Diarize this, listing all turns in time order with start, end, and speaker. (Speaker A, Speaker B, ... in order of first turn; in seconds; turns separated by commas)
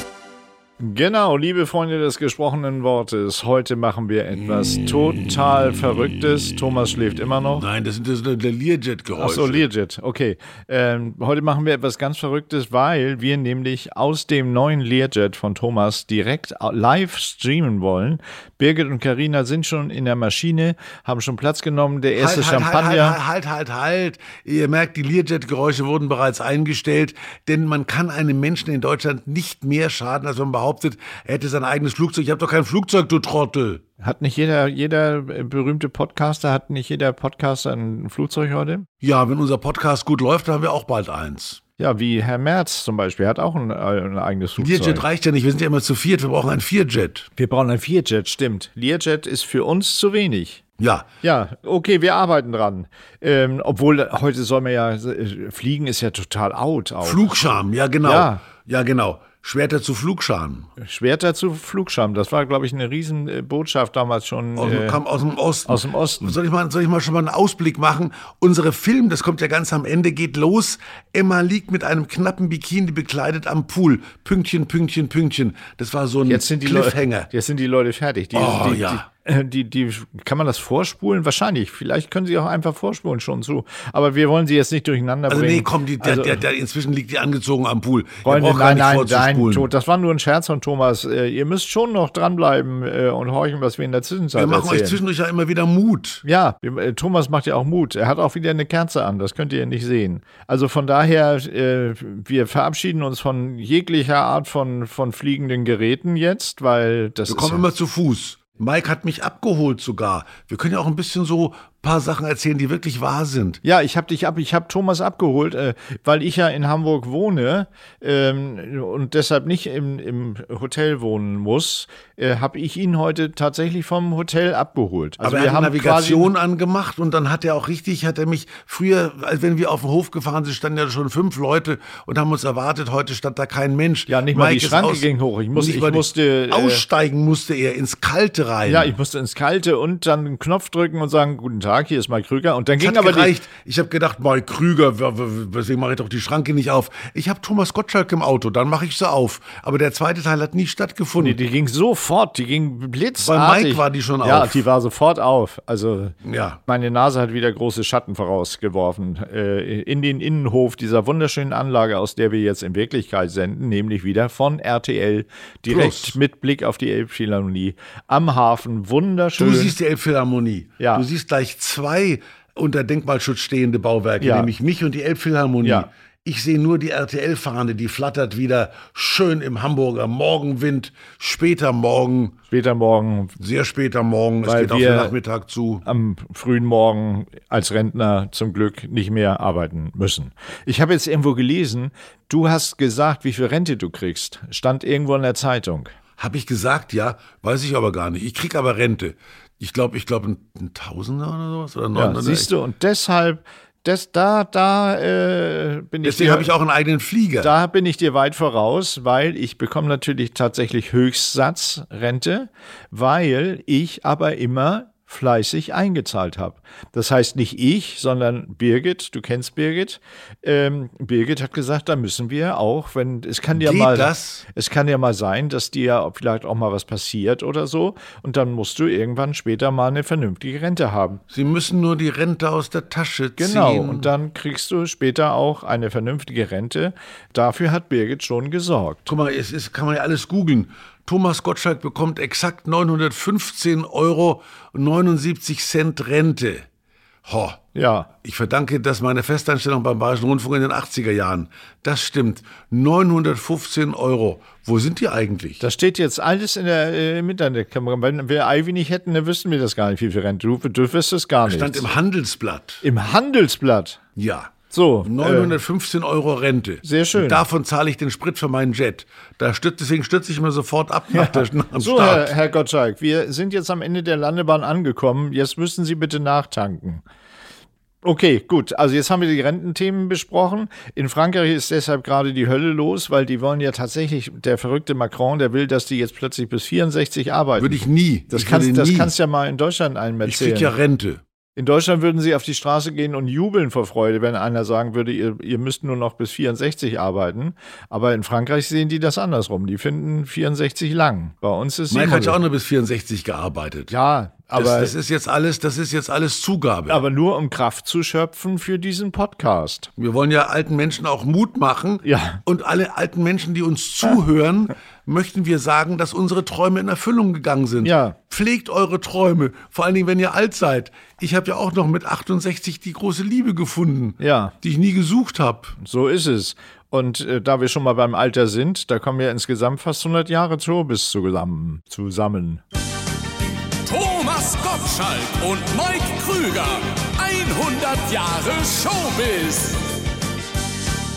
Speaker A: 0.8-7.6, Speaker B: 7.6-9.7, Speaker A: 9.2-23.2, Speaker B: 22.2-33.8, Speaker A: 34.0-38.9, Speaker B: 39.0-41.6, Speaker A: 41.8-45.0, Speaker B: 44.6-47.3, Speaker A: 47.4-50.6, Speaker B: 50.8-51.1, Speaker A: 51.2-57.3, Speaker B: 57.0-60.7, Speaker A: 58.0-58.4, Speaker A: 60.8-65.0, Speaker B: 64.6-77.3, Speaker A: 65.7-66.3, Speaker A: 76.2-86.4, Speaker B: 78.3-79.1, Speaker B: 85.3-89.7, Speaker A: 88.2-95.0, Speaker B: 94.3-96.2, Speaker A: 96.2-107.6, Speaker B: 107.3-113.6, Speaker A: 113.6-126.3, Speaker B: 125.2-138.9, Speaker A: 134.1-136.8, Speaker A: 138.7-143.3, Speaker B: 142.8-151.4, Speaker A: 151.2-156.2, Speaker B: 153.2-154.7, Speaker B: 156.2-156.6, Speaker A: 156.7-169.8, Speaker B: 165.7-166.2, Speaker B: 169.4-182.4, Speaker A: 170.8-171.1, Speaker A: 174.2-174.5, Speaker A: 175.6-175.9, Speaker A: 182.5-183.4, Speaker B: 183.4-185.8, Speaker A: 184.4-185.2, Speaker A: 185.8-195.9, Speaker B: 196.2-202.5, Speaker A: 201.9-206.5, Speaker B: 206.0-207.5, Speaker A: 207.4-231.2, Speaker B: 223.5-224.4, Speaker B: 231.3-234.1, Speaker A: 233.4-239.1, Speaker B: 239.1-246.7, Speaker B: 247.3-247.6, Speaker A: 247.7-248.1, Speaker B: 248.2-255.6, Speaker A: 255.6-261.9, Speaker B: 261.4-262.8, Speaker A: 262.8-264.0, Speaker B: 264.2-264.5, Speaker A: 264.7-265.6, Speaker B: 265.1-272.3, Speaker A: 266.8-267.5, Speaker A: 271.1-277.0, Speaker A: 278.0-290.7, Speaker B: 287.6-289.1, Speaker B: 290.2-291.2, Speaker A: 291.6-302.4, Speaker B: 301.9-303.9, Speaker A: 303.9-304.9, Speaker B: 304.6-307.0, Speaker A: 306.9-309.9, Speaker B: 310.0-325.8, Speaker A: 312.0-312.4, Speaker A: 317.8-318.2, Speaker A: 324.2-324.5, Speaker A: 325.8-332.6, Speaker C: 333.9-339.9